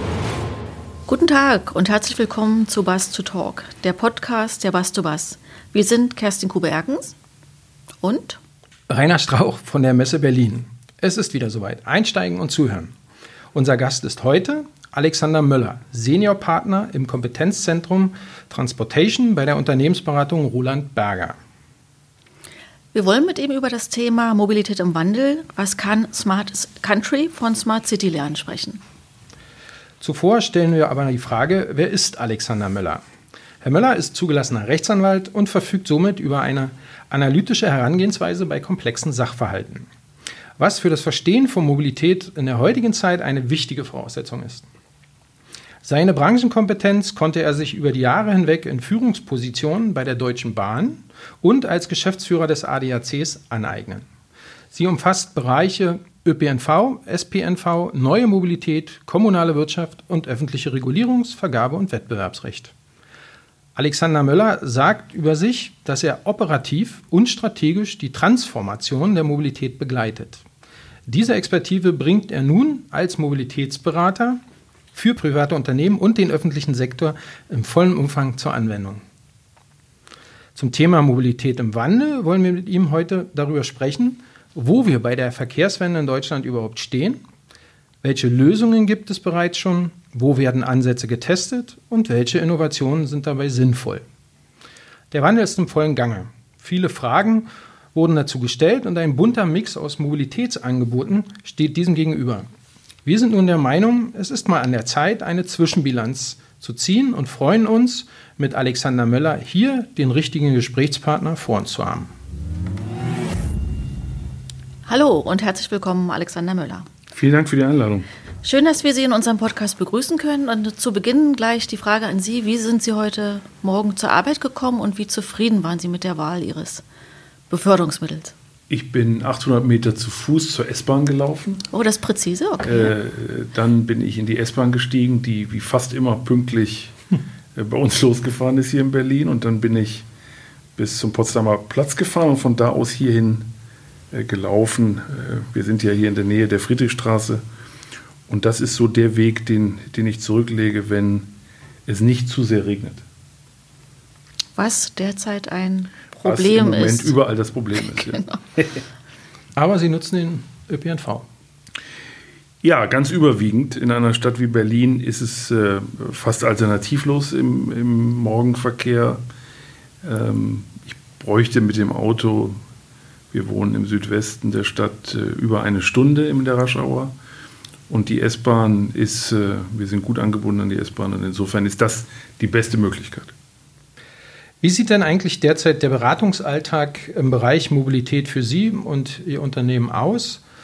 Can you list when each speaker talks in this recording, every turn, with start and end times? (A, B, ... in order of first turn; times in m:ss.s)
0:01.1-0:07.2 A
0:08.0-0:08.4 A
0:08.9-0:12.9 B
0:13.5-0:21.4 B
0:22.9-0:28.8 A
0:30.0-0:33.0 B
0:33.6-0:39.9 B
0:40.6-0:44.6 B
0:45.8-0:54.0 B
0:54.7-1:02.7 B
1:03.8-1:10.4 B
1:11.1-1:14.4 B
1:14.9-1:19.0 B
1:20.6-1:27.2 B
1:28.0-1:34.0 B
1:35.1-1:42.5 B
1:43.0-1:52.1 B
1:54.9-1:56.9 A
1:57.1-1:58.1 C
1:58.4-2:06.8 A
2:07.5-2:08.3 A
2:08.7-2:11.6 C
2:11.7-2:13.0 A
2:12.6-2:17.0 C
2:17.6-2:20.1 C
2:20.8-2:23.5 C
2:24.1-2:27.4 C
2:28.3-2:31.3 C
2:31.9-2:33.0 C
2:34.6-2:37.2 A
2:36.2-2:38.7 C
2:37.9-2:38.4 A
2:39.6-2:41.3 B
2:42.6-2:49.2 C
2:50.0-2:52.6 C
2:53.3-2:57.1 C
2:57.9-3:03.3 C
3:04.6-3:10.4 B